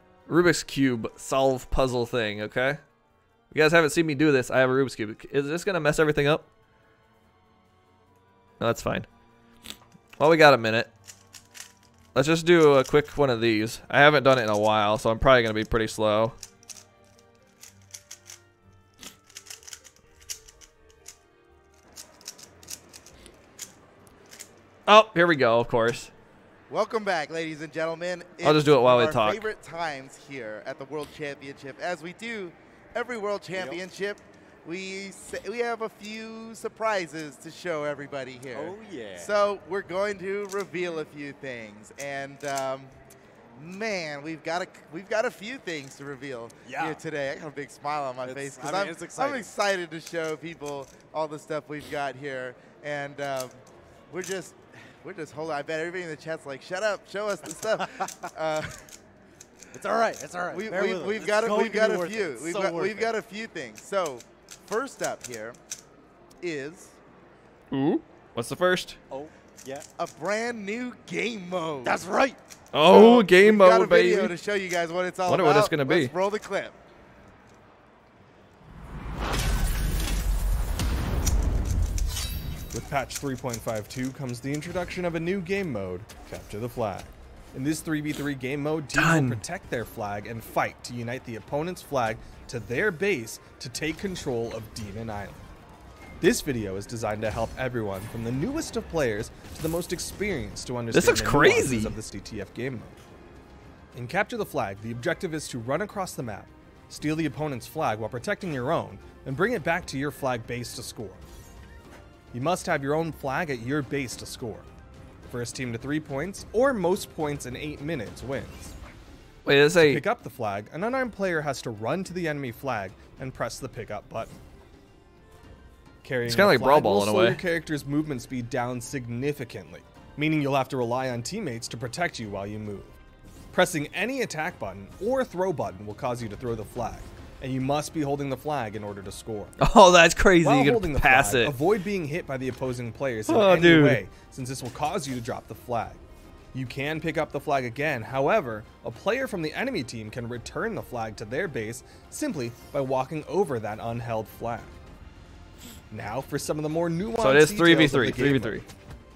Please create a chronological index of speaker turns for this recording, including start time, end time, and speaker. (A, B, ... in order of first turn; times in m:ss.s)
0:00.3-0:02.8 A
0:03.5-0:06.4 A
0:08.6-0:09.1 A
0:10.2-0:10.9 A
0:12.1-0:16.4 A
0:24.9-0:26.1 A
0:26.7-0:42.9 B
0:28.4-0:29.5 A
0:33.5-0:33.8 C
0:38.5-0:39.3 C
0:43.6-0:53.5 B
0:46.6-0:47.0 C
0:48.2-0:49.5 C
0:54.1-0:58.9 B
0:57.8-0:58.1 C
0:59.7-1:03.1 C
1:00.5-1:05.6 B
1:06.4-1:07.0 B
1:07.7-1:09.0 A
1:09.1-1:09.8 C
1:10.0-1:12.0 B
1:11.8-1:12.4 C
1:12.7-1:14.3 A
1:12.9-1:16.7 B
1:15.2-1:16.1 A
1:22.7-1:35.5 D
1:28.9-1:29.4 A
1:36.2-1:43.0 D
1:40.9-1:42.0 A
1:43.9-1:51.2 D
1:52.3-1:54.7 D
1:55.2-1:58.7 D
1:59.4-2:00.0 A
1:59.7-2:04.3 D
2:06.0-2:13.0 D
2:06.2-2:07.4 A
2:13.5-2:19.6 D
2:19.6-2:21.6 A
2:20.4-2:26.0 D
2:23.3-2:24.0 A
2:26.5-2:34.7 D
2:35.9-2:38.6 D
2:37.2-2:38.6 A